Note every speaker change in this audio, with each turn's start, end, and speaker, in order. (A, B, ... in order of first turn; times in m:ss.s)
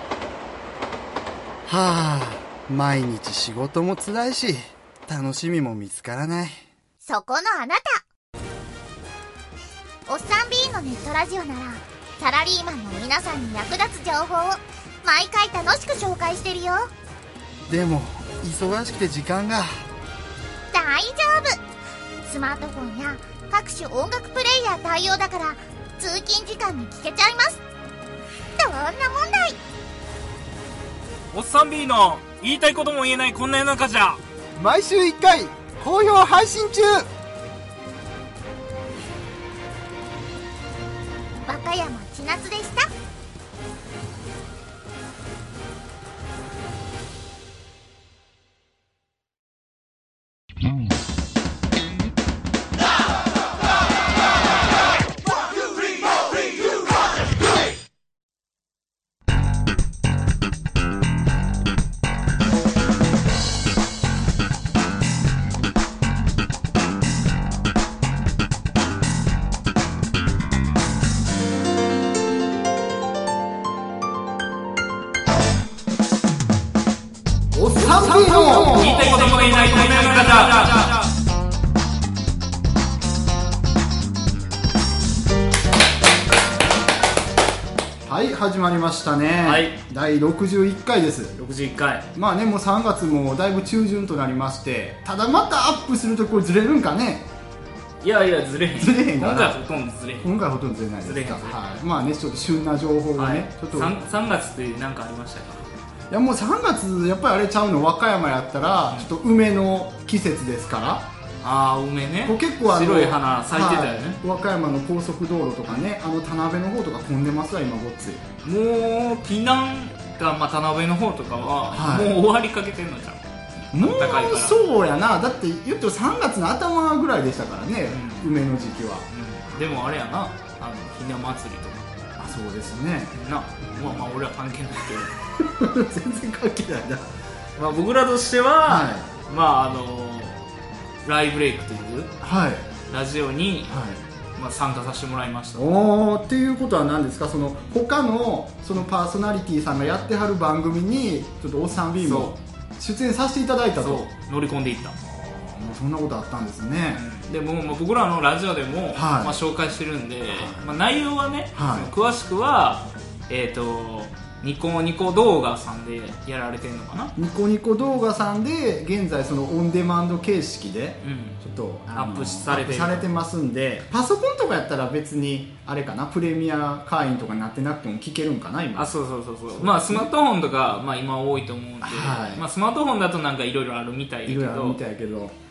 0:01.6-0:06.6 A
0:07.0-0:08.0 B
0:10.1-0:16.9 B
0:17.7-0:19.9 A
0:20.7-0:21.6 B
0:22.2-0:27.6 B
0:28.6-0:29.6 B
0:31.3-0:34.2 C
0:34.6-0:37.1 A
0:41.4-0:42.9 B
1:17.5-1:19.4 A
1:17.8-1:21.0 C
1:28.0-1:31.4 A
1:29.4-1:29.8 C
1:31.4-1:32.0 C
1:32.1-1:37.2 A
1:38.0-1:40.3 C
1:38.8-1:39.6 A
1:40.2-1:44.0 A
1:41.0-1:41.6 C
1:43.2-1:45.6 C
1:46.1-1:51.0 A
1:51.4-1:54.2 C
1:52.2-1:58.3 A
1:58.4-2:03.2 C
2:01.7-2:02.2 A
2:03.7-2:09.1 A
2:03.8-2:04.6 C
2:07.9-2:08.3 C
2:09.1-2:11.9 C
2:12.2-2:14.1 A
2:13.1-2:15.1 C
2:15.4-2:17.1 A
2:17.6-2:20.4 C
2:18.6-2:19.1 A
2:21.0-2:22.1 C
2:22.2-2:22.7 A
2:22.9-2:23.8 C
2:23.7-2:24.0 A
2:24.4-2:25.7 C
2:25.6-2:34.0 A
2:32.0-2:32.4 C
2:33.8-2:35.0 C
2:35.0-2:37.1 A
2:36.9-2:47.1 C
2:38.9-2:39.4 A
2:40.3-2:40.7 A
2:41.5-2:41.9 A
2:47.2-2:58.9 A
2:51.0-2:51.4 C
2:51.9-2:53.1 C
2:58.7-3:04.8 C
2:59.5-3:00.1 A
3:01.8-3:02.4 A
3:04.3-3:05.3 A